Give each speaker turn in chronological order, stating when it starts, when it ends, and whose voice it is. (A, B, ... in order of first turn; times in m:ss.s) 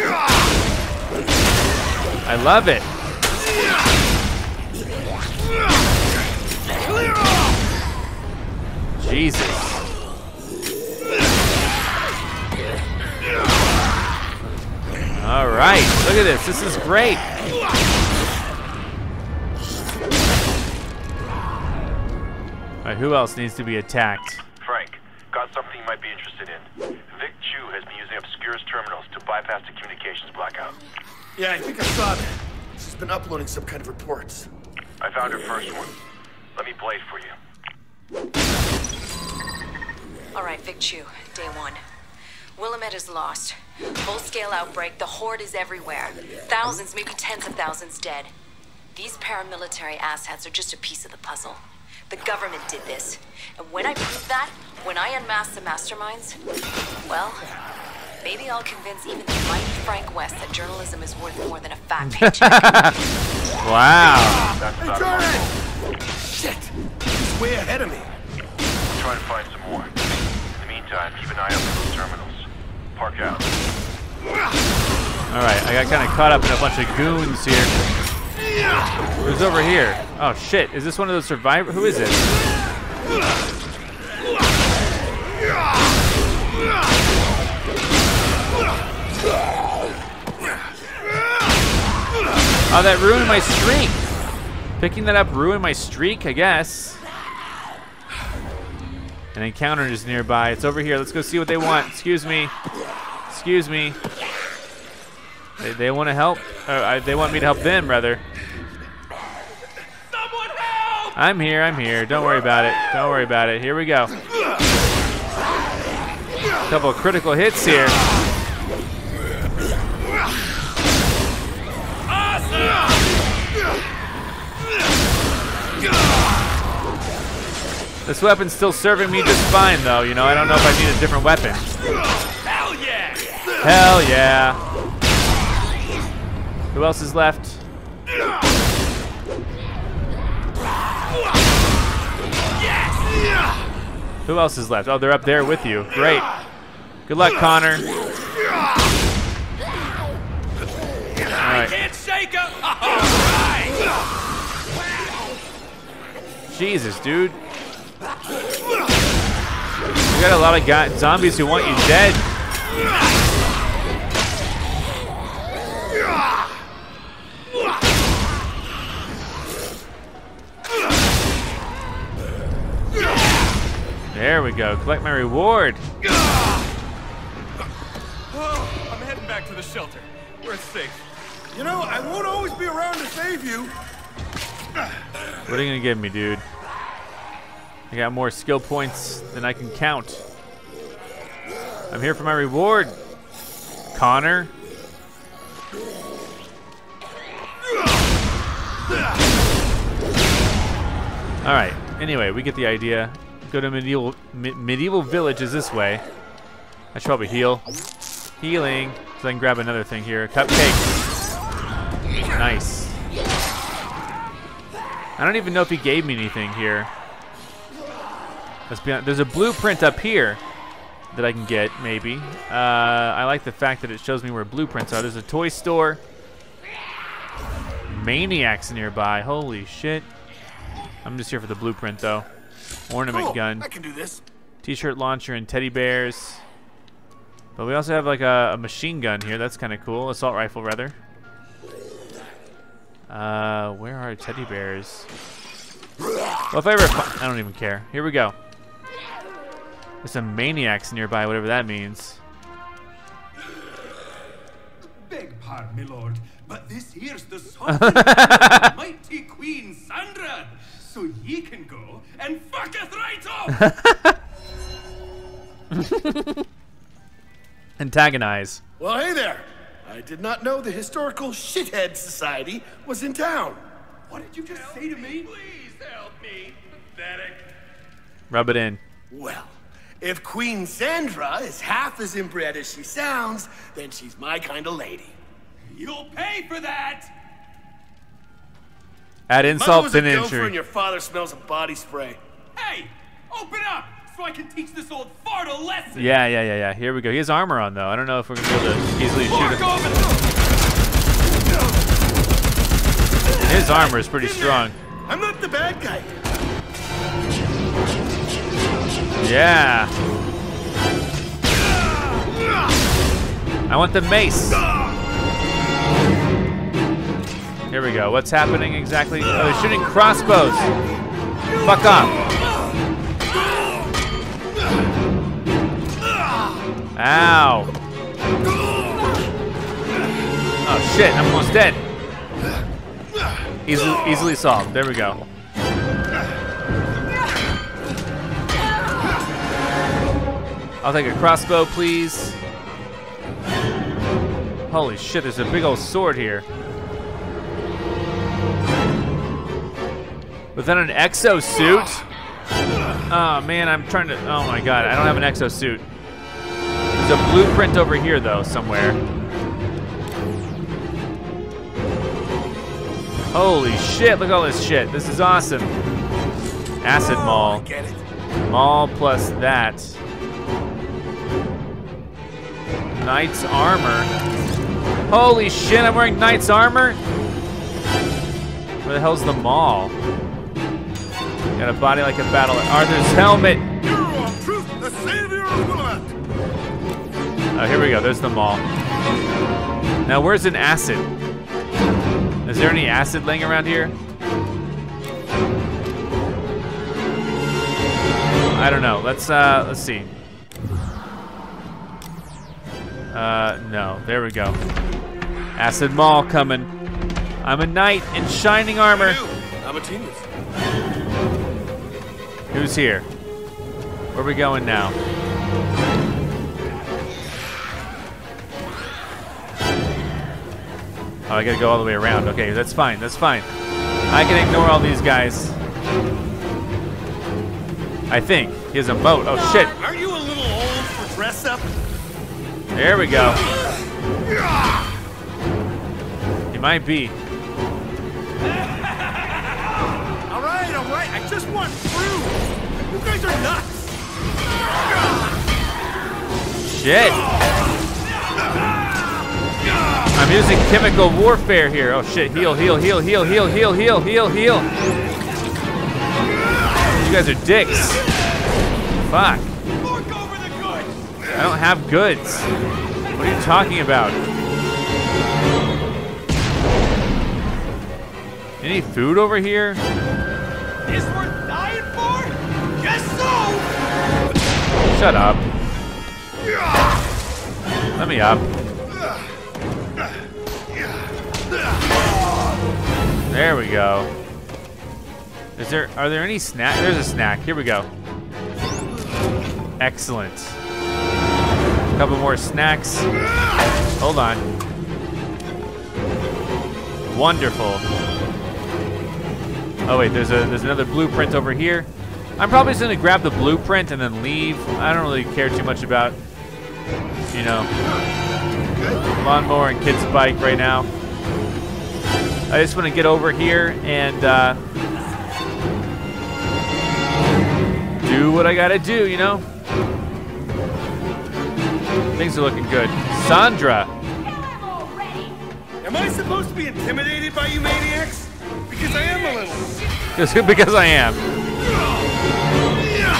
0:02.2-0:02.9 A
0:09.0-0:09.8 A
0:15.2-0:17.3 A
0:22.8-0:24.4 A
0:24.6-0:30.8 B
0:31.4-0:34.5 C
0:35.0-0:35.9 B
0:36.6-0:37.4 B
0:40.3-0:41.8 D
0:42.6-0:48.3 D
0:49.0-0:56.4 D
0:57.1-0:57.5 D
0:58.2-1:02.8 D
1:02.0-1:03.0 A
1:03.6-1:04.4 A
1:04.5-1:05.6 B
1:04.8-1:05.5 C
1:06.2-1:08.1 C
1:08.9-1:09.9 B
1:10.6-1:13.5 B
1:15.3-1:17.7 A
1:19.2-1:22.3 A
1:32.7-1:34.0 A
1:34.8-1:37.0 A
1:39.4-1:42.5 A
1:43.3-1:44.0 A
1:45.6-1:48.2 A
1:50.1-1:51.1 E
1:51.2-1:54.1 A
1:56.7-1:58.0 A
2:02.1-2:03.0 E
2:08.1-2:11.7 A
2:12.4-2:13.3 E
2:13.6-2:14.6 A
2:16.7-2:17.6 A
2:22.6-2:23.2 E
2:24.3-2:26.3 A
2:27.1-2:27.9 A
2:31.3-2:33.8 E
2:31.4-2:31.8 A
2:36.5-2:37.4 A
2:40.1-2:42.2 A
2:54.1-2:55.8 A
2:58.3-3:01.0 E
3:01.5-3:03.8 C
3:05.5-3:06.4 A
3:07.9-3:10.2 A
3:11.9-3:13.0 A
3:13.9-3:14.5 A
3:21.4-3:26.0 A
3:26.9-3:27.7 A
3:28.4-3:31.0 A
3:32.4-3:33.0 A
3:35.2-3:36.9 A
3:38.7-3:40.4 A
3:41.1-3:46.0 A
3:47.9-3:50.1 A
3:51.0-3:52.3 A
3:52.9-3:53.7 A
3:53.1-3:54.2 C
3:54.6-3:56.4 A
3:57.6-4:01.0 A
4:03.1-4:05.1 A
4:06.5-4:08.4 A
4:10.0-4:12.2 A
4:15.1-4:23.7 E
4:17.7-4:18.7 A
4:23.5-4:24.2 A
4:25.7-4:26.4 A
4:27.8-4:28.6 A
4:28.8-4:33.6 C
4:34.1-4:37.4 E
4:34.4-4:35.3 C
4:38.3-4:38.8 A
4:39.1-4:45.2 C
4:45.7-4:47.1 E
4:49.3-4:50.5 A
4:49.5-4:52.2 C
4:52.6-4:56.1 E
4:56.0-4:59.7 A
4:59.2-5:00.2 E
5:03.4-5:04.8 A
5:03.5-5:06.2 C
5:09.2-5:09.9 A
5:13.7-5:14.6 A
5:17.7-5:20.7 A
5:21.6-5:22.2 A
5:27.0-5:27.7 A
5:30.6-5:31.8 A
5:33.7-5:35.2 A
5:40.8-5:42.4 A
5:44.7-5:46.4 A
5:50.6-5:52.0 A
5:53.1-5:55.8 A
5:57.0-5:59.0 A
6:03.3-6:05.7 A
6:06.8-6:07.7 A
6:07.0-6:08.0 C
6:08.5-6:10.0 A
6:13.0-6:14.1 A
6:15.1-6:17.0 A
6:18.8-6:19.9 A
6:21.6-6:23.7 A
6:23.8-6:26.2 C
6:27.5-6:28.6 A
6:30.0-6:31.1 A
6:32.4-6:33.9 A
6:38.5-6:40.1 A
6:43.1-6:44.6 A
6:45.6-6:46.7 A
6:47.4-6:49.2 A
6:48.9-6:50.3 C
6:52.5-6:53.1 A
6:54.1-6:55.0 A
7:01.3-7:03.5 A
7:04.1-7:05.6 A
7:08.1-7:09.8 A
7:09.4-7:11.8 C
7:12.7-7:13.4 A
7:16.5-7:17.2 A
7:20.3-7:23.7 C
7:26.7-7:27.2 A
7:30.2-7:34.7 A
7:36.8-7:38.0 A
7:39.1-7:39.5 A
7:39.8-7:41.1 E
7:41.3-7:42.5 A
7:43.1-7:43.7 E
7:43.2-7:44.2 A
7:48.6-7:49.8 A
7:50.9-7:53.7 E
7:54.9-7:55.4 A
7:58.0-7:58.5 A
8:03.3-8:04.1 A
8:05.6-8:07.9 A
8:09.8-8:10.6 A
8:12.0-8:13.1 A
8:14.0-8:14.5 A
8:17.1-8:17.8 A
8:19.9-8:26.2 A
8:27.3-8:27.7 A
8:28.6-8:29.0 C
8:29.1-8:30.9 A
8:32.5-8:34.6 A
8:38.0-8:39.4 A
8:42.2-8:43.9 A
8:45.8-8:49.8 C
8:50.2-8:51.2 A